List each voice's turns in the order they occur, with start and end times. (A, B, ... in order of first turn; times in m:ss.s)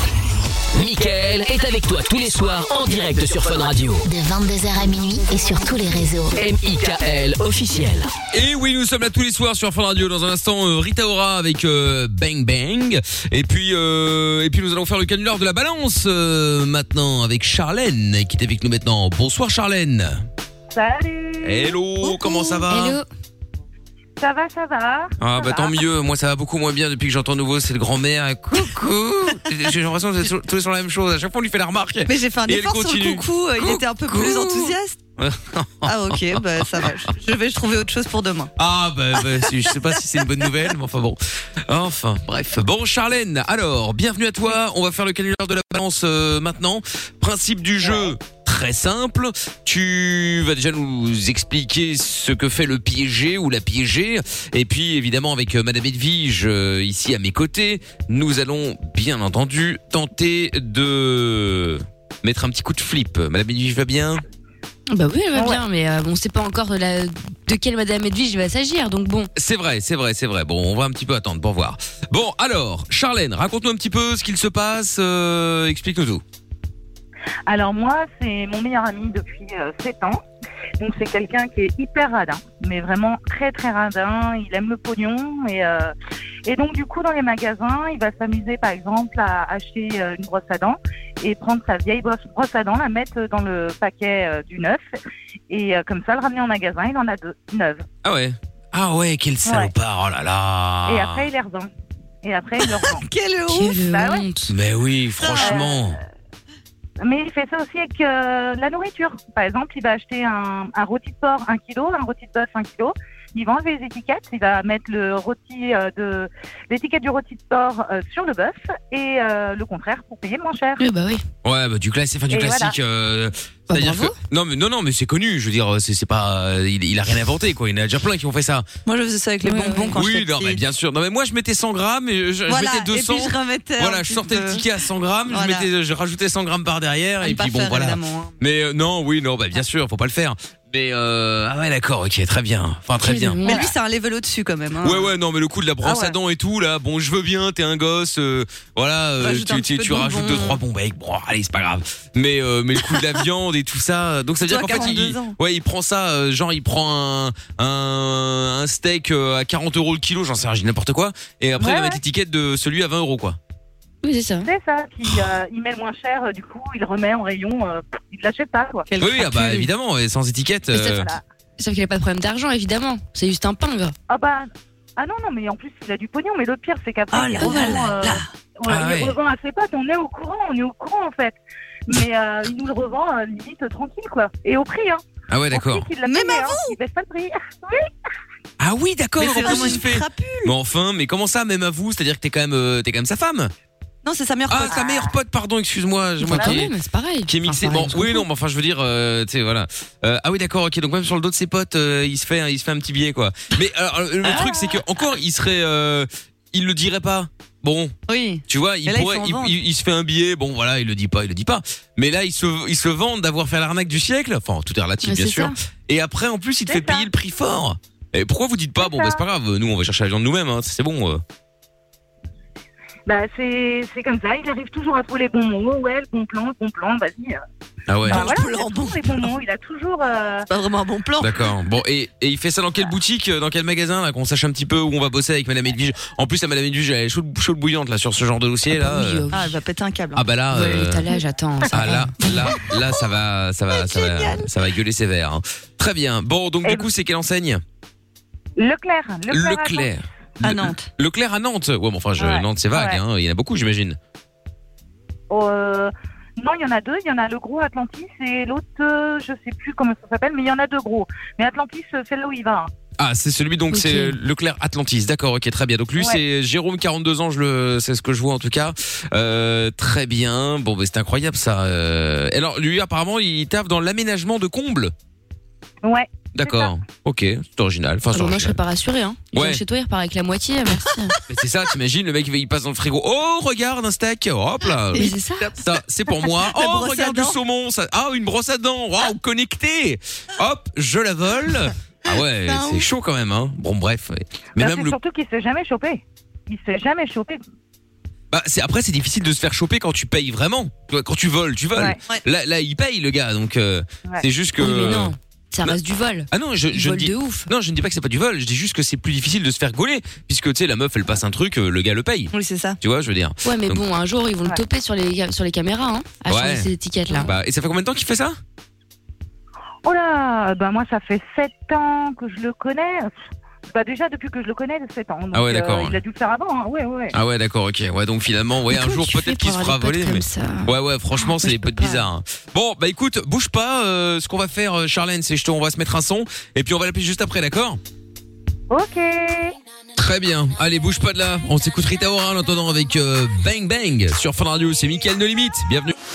0:00.7-0:04.0 A
0:04.0-0:06.4 B
0:06.3-0:08.1 A
0:08.3-0:20.2 C
0:20.7-0:21.8 D
0:21.4-0:23.0 C
0:22.0-0:23.0 E
0:24.2-0:25.7 D
0:25.2-0:36.9 C
0:32.1-0:35.0 F
0:35.8-0:38.5 F
0:38.6-1:04.2 C
1:04.9-1:09.3 E
1:05.3-1:05.6 D
1:09.3-1:16.2 C
1:17.5-1:20.2 D
1:20.8-1:25.9 D
1:26.4-1:34.8 D
1:35.5-1:37.8 D
1:38.0-1:41.3 C
1:39.4-1:39.7 D
1:40.9-1:41.7 D
1:42.2-1:43.1 D
1:42.8-1:43.8 F
1:43.5-1:44.5 E
1:43.8-1:44.2 D
1:44.5-1:46.0 C
1:45.3-1:45.6 F
1:45.4-1:45.8 D
1:47.0-2:00.8 D
2:00.8-2:01.2 E
2:01.4-2:08.7 C
2:02.3-2:02.8 D
2:03.7-2:04.2 E
2:08.8-2:10.6 F
2:09.4-2:09.9 E
2:09.9-2:23.6 C
2:12.5-2:14.6 F
2:15.3-2:15.7 F
2:17.2-2:18.3 F
2:23.0-2:23.7 E
2:23.4-2:25.1 F
2:24.8-2:43.4 C
2:25.8-2:26.2 F
2:29.2-2:30.6 F
2:34.4-2:35.4 F
2:41.6-2:42.0 D
2:44.0-2:44.5 E
2:44.4-2:48.9 D
2:48.9-2:49.7 F
2:49.0-2:51.1 C
2:50.8-2:51.2 D
2:51.6-2:53.9 E
2:54.1-3:01.4 D
2:57.1-2:57.8 C
2:57.3-2:58.1 F
2:57.4-2:57.8 E
2:58.7-2:59.2 C
3:01.9-3:07.9 D
3:05.3-3:05.9 C
3:06.0-3:06.8 F
3:08.6-3:13.5 C
3:09.2-3:10.5 F
3:14.0-3:15.0 F
3:14.5-3:16.7 C
3:14.7-3:15.0 D
3:16.2-3:18.2 E
3:17.3-3:28.0 C
3:28.1-3:29.6 F
3:28.5-3:41.2 C
3:35.0-3:35.5 E
3:36.7-3:37.0 D
3:38.8-3:39.2 D
3:43.1-3:47.4 D
3:47.9-3:48.3 C
3:48.0-3:49.3 F
3:48.1-3:50.5 D
3:50.5-3:51.5 F
3:51.2-3:59.3 C
3:58.7-3:59.6 E
3:59.3-4:00.2 F
4:00.1-4:01.1 C
4:00.5-4:02.1 E
4:01.7-4:07.6 C
4:03.7-4:04.4 F
4:08.6-4:09.9 D
4:09.3-4:14.0 C
4:10.4-4:10.9 F
4:12.2-4:13.0 D
4:15.3-4:22.7 D
4:23.0-4:34.9 C
4:23.7-4:24.2 E
4:35.8-4:36.7 D
4:36.3-4:38.6 C
4:38.1-4:41.2 E
4:39.3-4:39.6 C
4:41.3-4:55.0 C
4:44.9-4:45.6 F
4:44.9-4:45.5 E
4:46.2-4:47.4 F
4:52.4-4:52.8 F
4:54.6-4:57.4 D
4:58.3-5:05.8 C
5:04.6-5:07.5 E
5:06.3-5:13.8 C
5:12.3-5:12.8 F
5:13.4-5:17.3 E
5:16.3-5:16.7 C
5:17.2-5:18.4 C
5:19.8-5:23.1 D
5:23.7-5:27.2 D
5:25.3-5:26.0 C
5:27.1-5:37.8 C
5:28.7-5:32.0 E
5:38.7-5:39.5 D
5:40.0-5:45.9 C